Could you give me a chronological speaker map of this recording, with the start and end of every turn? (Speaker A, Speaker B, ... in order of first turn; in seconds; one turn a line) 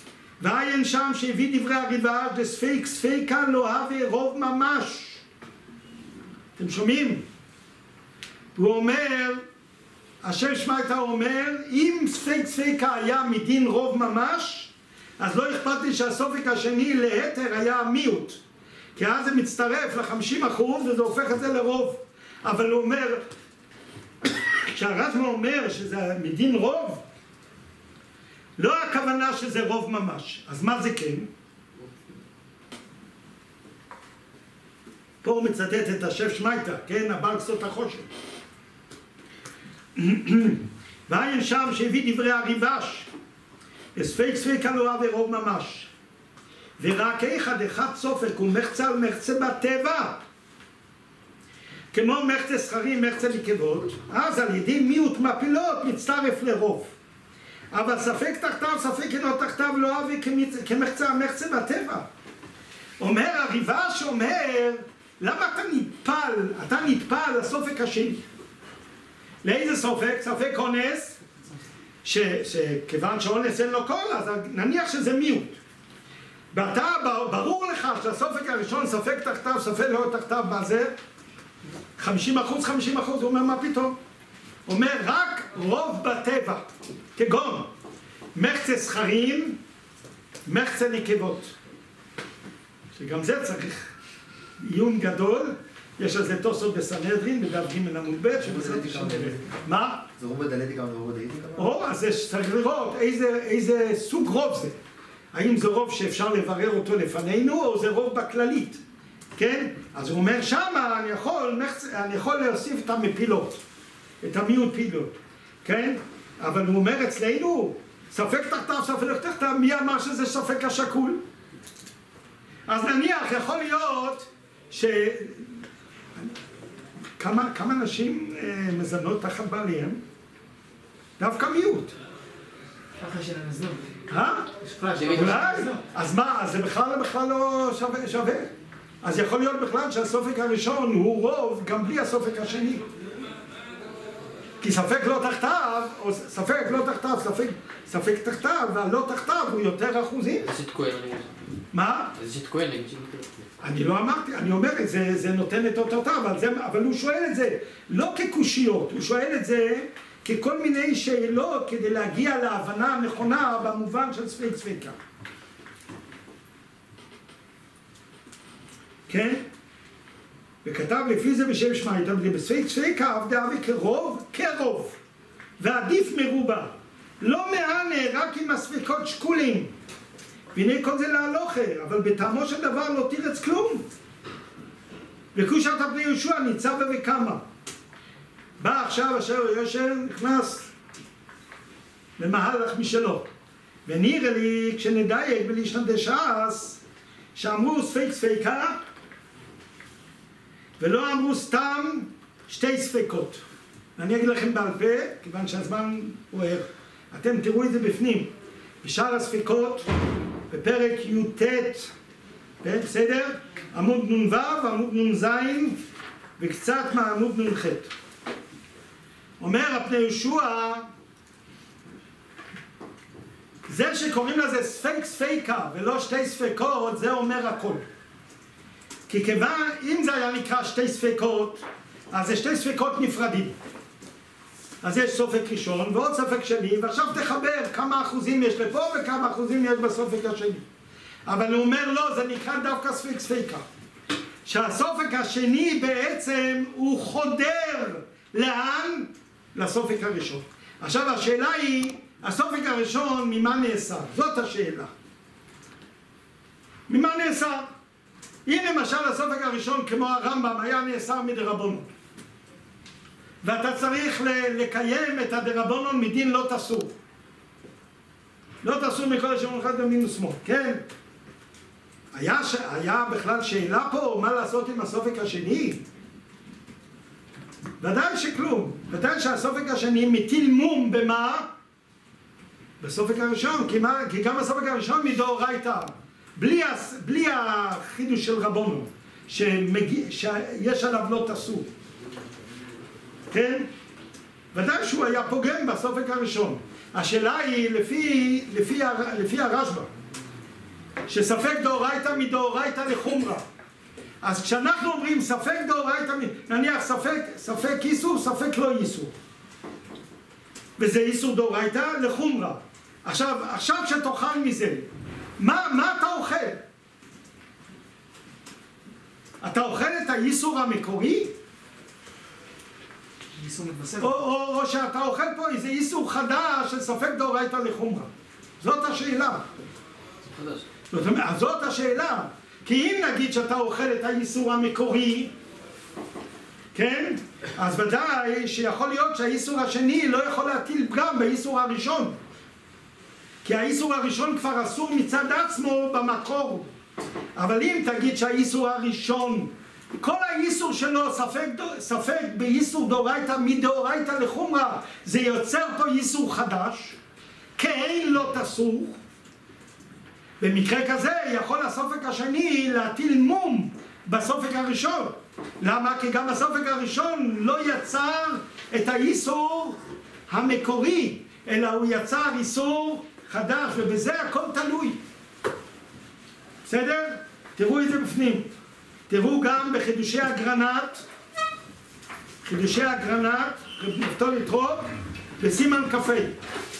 Speaker A: 0.4-5.2
Speaker A: 6.5-7.2
Speaker A: 8.5-9.4
Speaker A: 10.2-18.4
Speaker A: 18.9-23.2
Speaker A: 24.7-27.0
Speaker A: 28.6-31.3
Speaker A: 35.2-38.1
Speaker A: 40.0-43.1
Speaker A: 43.9-45.9
Speaker A: 46.8-50.2
Speaker A: 51.9-56.9
Speaker A: 57.7-62.0
Speaker A: 63.0-68.2
Speaker A: 69.4-71.2
Speaker A: 72.0-75.6
Speaker A: 76.5-80.9
Speaker A: 82.0-84.0
Speaker A: 84.7-87.7
Speaker A: 88.3-89.6
Speaker A: 90.5-91.5
Speaker A: 93.0-93.9
Speaker A: 94.6-100.0
Speaker B: 98.4-99.5
Speaker B: 100.1-101.7
Speaker A: 101.5-104.8
Speaker A: 105.3-108.8
Speaker A: 109.3-113.6
Speaker A: 114.2-115.1
Speaker A: 115.6-121.2
Speaker A: 122.7-125.5
Speaker A: 127.2-130.0
Speaker A: 131.2-131.9
Speaker C: 133.0-133.9
Speaker A: 134.1-134.5
Speaker C: 134.6-135.8
Speaker D: 134.9-135.5
Speaker A: 135.1-138.5
Speaker A: 139.0-142.8
Speaker A: 144.6-150.5
Speaker D: 150.4-151.3
Speaker A: 151.7-152.1
Speaker D: 152.1-153.5
Speaker A: 153.6-164.9
Speaker A: 169.1-169.4
Speaker A: 170.6-175.0
Speaker A: 175.6-179.7
Speaker A: 180.5-183.8
Speaker A: 185.3-187.4
Speaker A: 188.6-190.7
Speaker A: 192.2-193.3
Speaker A: 193.8-196.8
Speaker A: 197.3-198.8
Speaker A: 200.8-203.4
Speaker A: 204.0-208.3
Speaker A: 208.8-209.9
Speaker A: 210.5-211.9
Speaker A: 212.6-215.8
Speaker A: 216.4-217.9
Speaker A: 219.4-220.9
Speaker A: 223.7-227.8
Speaker A: 229.1-233.5
Speaker A: 234.8-240.6
Speaker A: 241.2-243.6
Speaker A: 244.4-254.9
Speaker A: 256.9-257.7
Speaker A: 258.4-261.9
Speaker A: 263.4-266.9
Speaker A: 268.6-270.8
Speaker A: 272.1-275.8
Speaker A: 277.8-281.5
Speaker A: 282.8-291.7
Speaker A: 293.3-293.7
Speaker A: 294.5-299.9
Speaker A: 301.1-303.4
Speaker A: 304.2-309.1
Speaker A: 310.8-316.6
Speaker A: 319.4-321.3
Speaker C: 323.3-324.2
Speaker A: 324.0-328.1
Speaker A: 328.6-329.4
Speaker D: 330.2-330.6
Speaker A: 330.9-335.3
Speaker A: 336.7-342.1
Speaker A: 343.4-346.7
Speaker A: 347.3-357.0
Speaker A: 357.6-359.0
Speaker A: 360.4-375.0
Speaker A: 376.6-378.5
Speaker A: 379.1-381.0
Speaker A: 382.4-384.9
Speaker A: 385.4-386.4